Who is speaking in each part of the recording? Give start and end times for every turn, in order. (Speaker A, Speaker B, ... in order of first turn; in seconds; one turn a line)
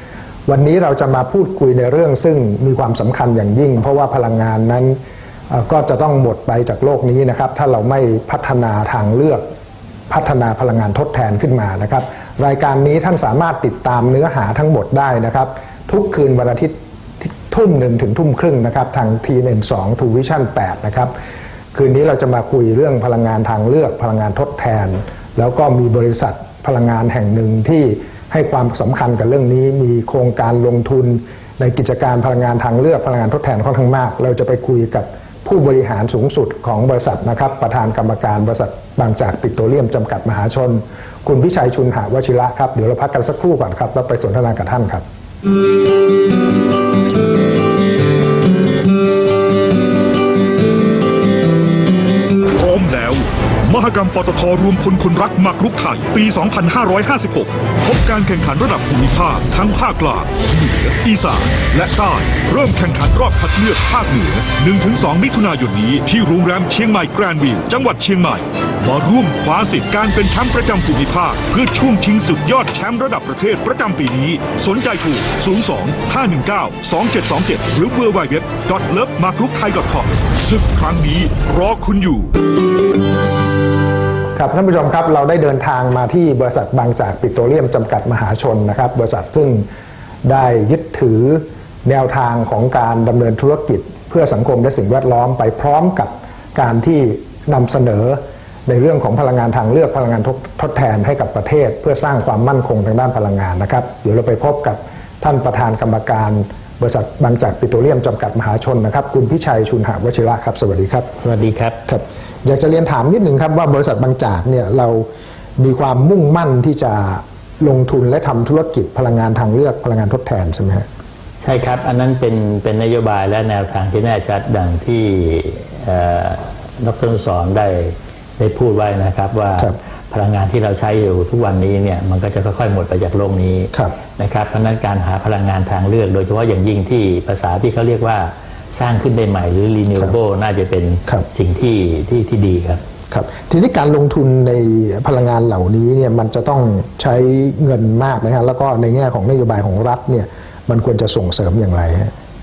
Speaker A: 0.5-5.0
Speaker A: 5.5-9.4
Speaker A: 10.1-21.1
Speaker A: 21.7-45.0
Speaker B: 52.5-82.3
Speaker A: 84.3-89.7
Speaker A: 90.2-111.1
Speaker C: 111.2-111.8
Speaker A: 111.9-115.1
Speaker A: 115.6-120.8
Speaker C: 121.4-142.8
Speaker A: 143.1-152.1